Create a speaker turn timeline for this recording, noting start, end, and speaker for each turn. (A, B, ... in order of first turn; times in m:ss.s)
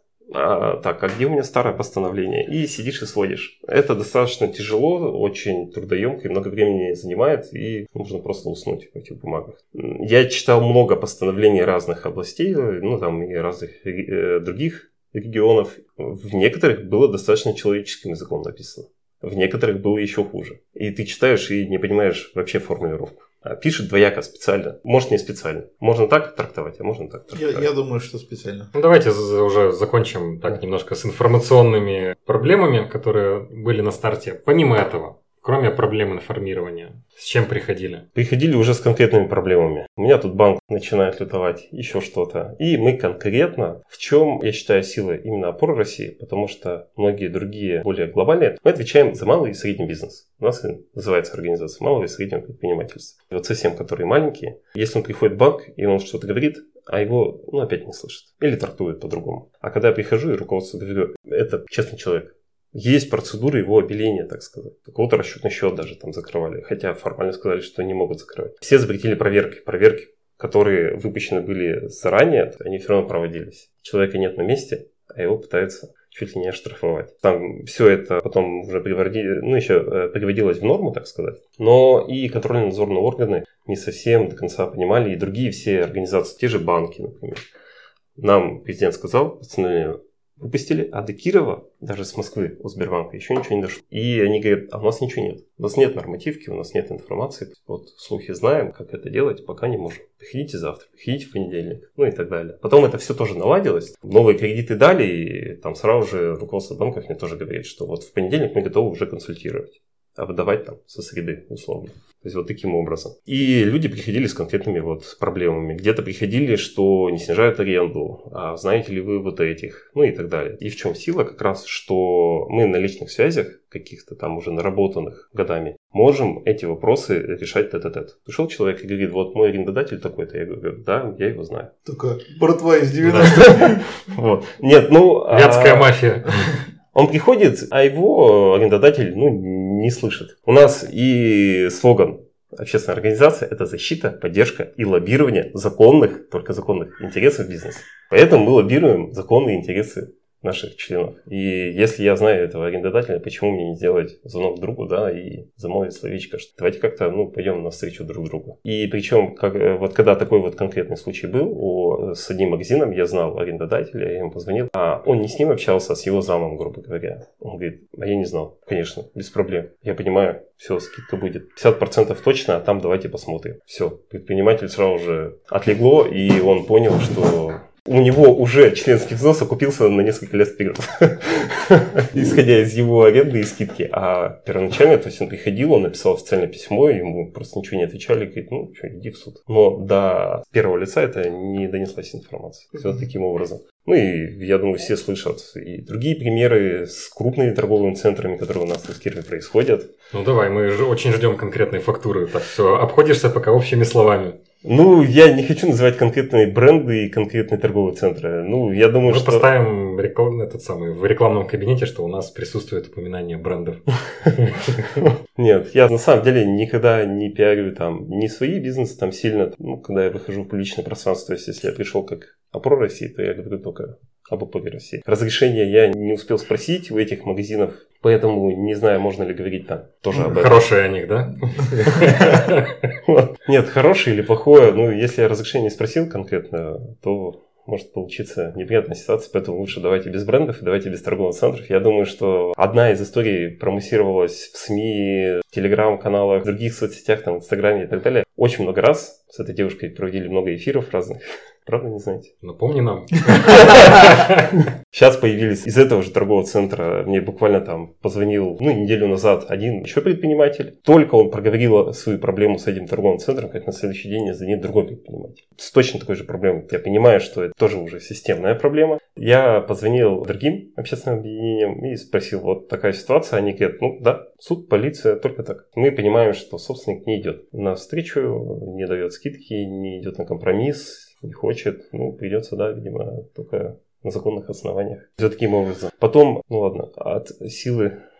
0:00.3-0:27.6 A
0:27.3-0:28.7 B
0:28.7-0:38.0 C
0:38.1-1:27.5 A
1:28.2-2:11.7 A
2:11.8-2:13.8 B
2:13.1-2:15.9 A
2:15.3-2:16.6 C
2:16.9-3:19.9 A
3:20.1-3:24.4 C
3:24.6-3:29.5 A
3:29.1-3:34.8 C
3:34.9-3:50.6 A
3:50.1-3:52.7 C
3:51.9-3:52.5 A
3:53.0-4:12.3 A
4:12.4-4:14.5 C
4:13.4-4:48.0 A